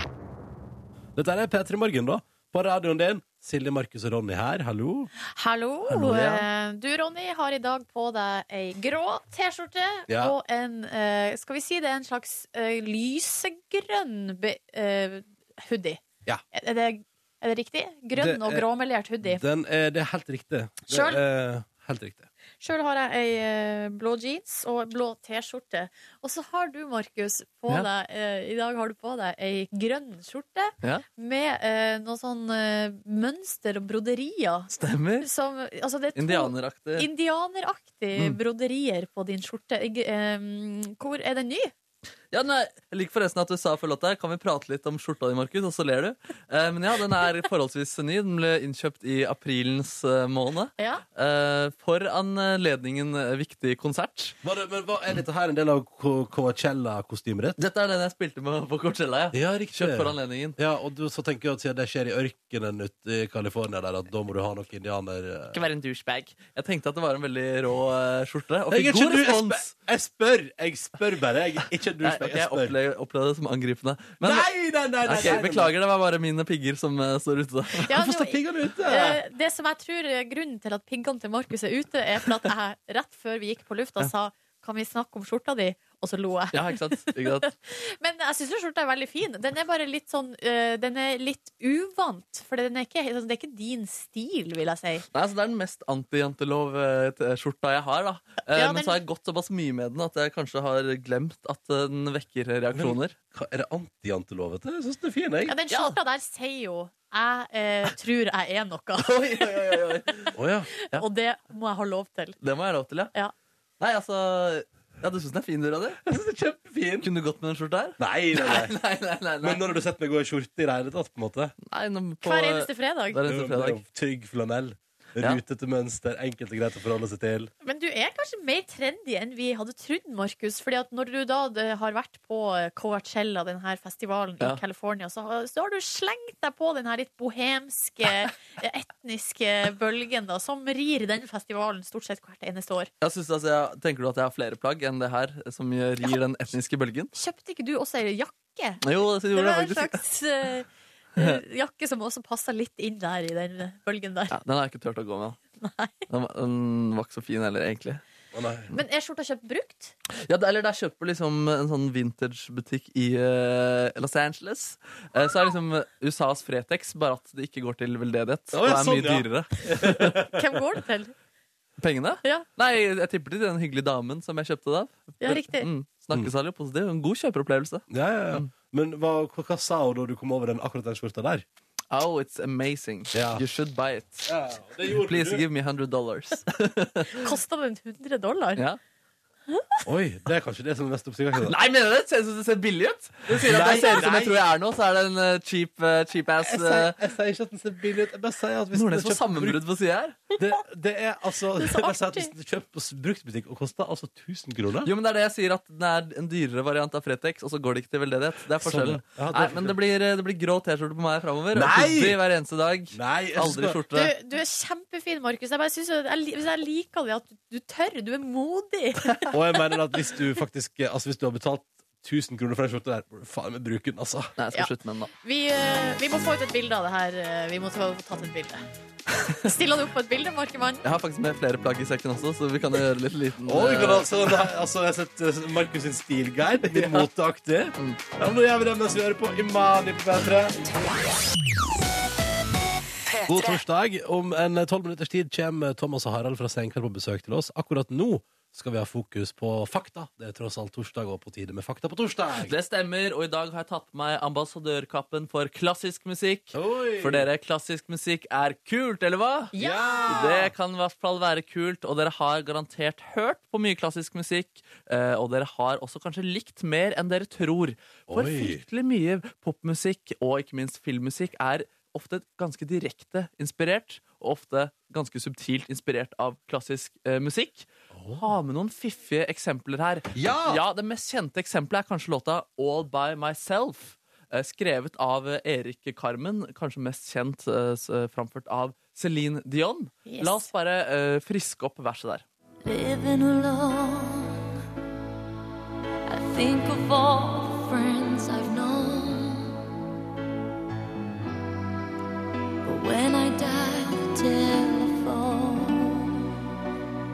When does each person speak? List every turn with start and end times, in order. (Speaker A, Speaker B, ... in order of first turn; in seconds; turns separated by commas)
Speaker A: 1.1-5.1, Speaker B: 5.3-16.0, Speaker C: 5.9-6.4, Speaker A: 10.1-10.3, Speaker B: 16.5-19.4, Speaker A: 18.1-18.7, Speaker A: 19.2-22.3, Speaker B: 20.9-21.2, Speaker B: 22.6-41.7, Speaker C: 34.7-35.3, Speaker C: 36.1-37.1, Speaker C: 42.3-54.4, Speaker B: 50.8-51.0, Speaker A: 54.4-57.6, Speaker C: 57.6-60.5, Speaker A: 59.3-65.6, Speaker C: 65.5-69.7, Speaker A: 68.7-72.7, Speaker C: 72.0-74.5, Speaker A: 74.2-75.7, Speaker C: 75.0-78.0, Speaker B: 77.8-95.0, Speaker A: 77.9-79.2, Speaker C: 86.5-87.5, Speaker C: 95.1-103.1, Speaker B: 98.5-99.0, Speaker A: 102.7-105.6, Speaker B: 105.5-109.2, Speaker C: 105.7-106.0, Speaker C: 109.0-110.3, Speaker A: 110.3-110.7, Speaker B: 110.8-112.4, Speaker C: 112.4-113.1, Speaker C: 113.8-116.0, Speaker A: 116.0-117.1, Speaker C: 117.0-119.7, Speaker A: 118.0-118.8, Speaker A: 119.4-121.5, Speaker C: 121.7-123.8, Speaker B: 122.2-123.2, Speaker A: 123.2-127.5, Speaker B: 127.6-142.9, Speaker C: 143.0-147.1, Speaker B: 147.1-154.3, Speaker C: 148.8-150.0, Speaker C: 154.3-155.4, Speaker B: 155.6-156.0, Speaker C: 156.1-158.0, Speaker A: 158.3-158.7, Speaker B: 158.7-159.9, Speaker C: 160.2-170.2, Speaker A: 168.5-170.3, Speaker B: 170.3-171.1, Speaker C: 171.8-178.5, Speaker B: 175.2-175.7, Speaker A: 177.9-181.4, Speaker C: 181.9-184.3, Speaker A: 183.1-183.4, Speaker A: 184.2-185.4, Speaker C: 185.0-187.3, Speaker B: 187.1-188.6, Speaker B: 189.5-189.8, Speaker A: 189.8-191.5, Speaker C: 191.4-197.0, Speaker A: 193.3-194.5, Speaker B: 193.7-194.0, Speaker A: 196.4-199.6, Speaker C: 198.7-200.2, Speaker A: 200.4-204.9, Speaker B: 201.6-202.3, Speaker C: 204.8-214.1, Speaker A: 208.6-209.8, Speaker A: 211.5-212.2, Speaker A: 212.9-213.8, Speaker B: 213.9-219.3, Speaker A: 219.3-224.3, Speaker C: 224.4-225.1, Speaker B: 224.5-228.6, Speaker C: 229.1-229.4, Speaker B: 229.4-230.8, Speaker C: 230.8-234.4, Speaker A: 233.4-240.6, Speaker C: 236.7-237.1, Speaker A: 243.2-252.5, Speaker C: 252.4-259.5, Speaker A: 256.5-257.3, Speaker B: 259.5-260.2, Speaker A: 259.6-260.5, Speaker C: 260.1-292.2, Speaker A: 268.1-268.6, Speaker A: 277.9-278.2, Speaker A: 280.1-280.6, Speaker B: 290.1-290.5, Speaker D: 292.6-294.4, Speaker D: 296.1-299.6, Speaker D: 302.6-306.3